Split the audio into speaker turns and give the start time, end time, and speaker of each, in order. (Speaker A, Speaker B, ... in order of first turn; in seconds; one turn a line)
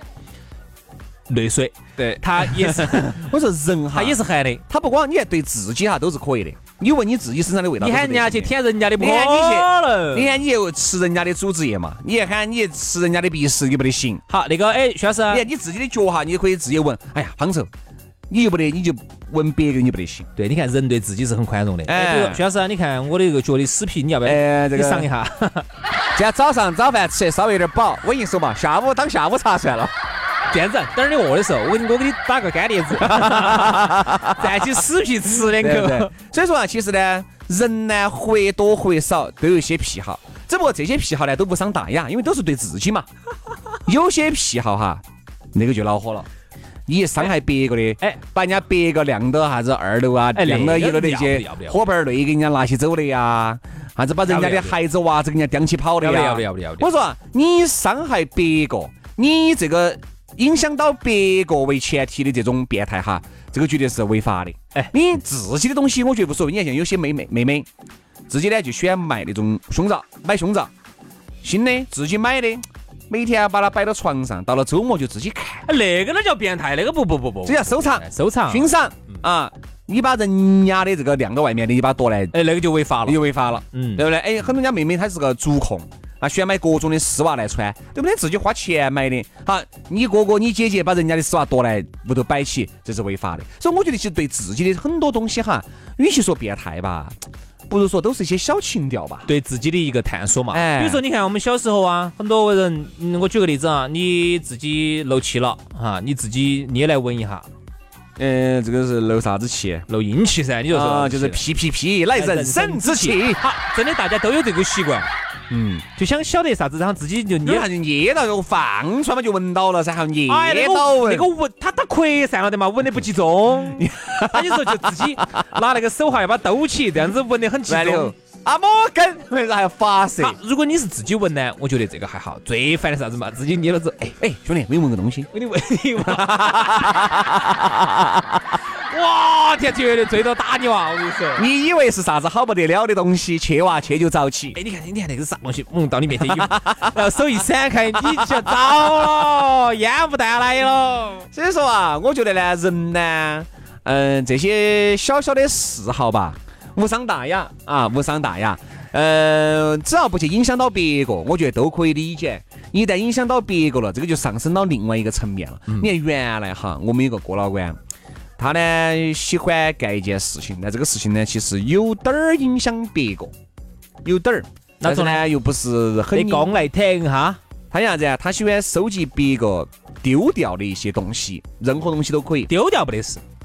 Speaker A: 1.3-3.3
Speaker B: 2.0-14.2
Speaker A: 3.9-4.6
Speaker A: 7.8-10.4
Speaker A: 14.3-15.5
Speaker B: 15.3-17.7
Speaker B: 18.3-20.3
Speaker A: 20.4-25.7
Speaker B: 21.9-22.4
Speaker B: 24.2-25.1
Speaker B: 26.1-29.9
Speaker A: 30.5-36.1
Speaker B: 33.0-34.8
Speaker B: 35.4-43.1
Speaker B: 43.9-45.0
Speaker B: 45.5-46.3
Speaker B: 46.9-67.7
Speaker A: 50.4-51.8
Speaker A: 54.3-54.8
Speaker A: 56.0-56.9
Speaker B: 68.3-70.7
Speaker B: 71.4-75.7
Speaker A: 75.7-78.7
Speaker B: 77.5-82.3
Speaker A: 82.3-84.1
Speaker B: 83.0-97.2
Speaker B: 97.7-99.3
Speaker A: 99.3-107.5
Speaker B: 100.5-101.0
Speaker B: 108.2-109.9
Speaker A: 109.9-111.4
Speaker B: 110.7-113.4
Speaker A: 112.1-115.1
Speaker B: 115.5-115.8
Speaker A: 116.0-117.7
Speaker B: 117.4-121.3
Speaker A: 120.3-128.1
Speaker B: 123.7-125.4
Speaker B: 127.7-130.4
Speaker A: 130.2-134.2
Speaker B: 134.2-135.3
Speaker A: 135.3-137.3
Speaker B: 136.0-138.4
Speaker A: 138.8-141.5
Speaker B: 141.4-144.6
Speaker A: 144.6-151.3
Speaker B: 146.2-146.9
Speaker B: 148.1-148.9
Speaker B: 151.3-167.8
Speaker B: 168.4-173.3
Speaker B: 174.0-176.6
Speaker A: 174.8-175.2
Speaker A: 176.1-177.4
Speaker B: 177.7-182.5
Speaker A: 182.5-183.2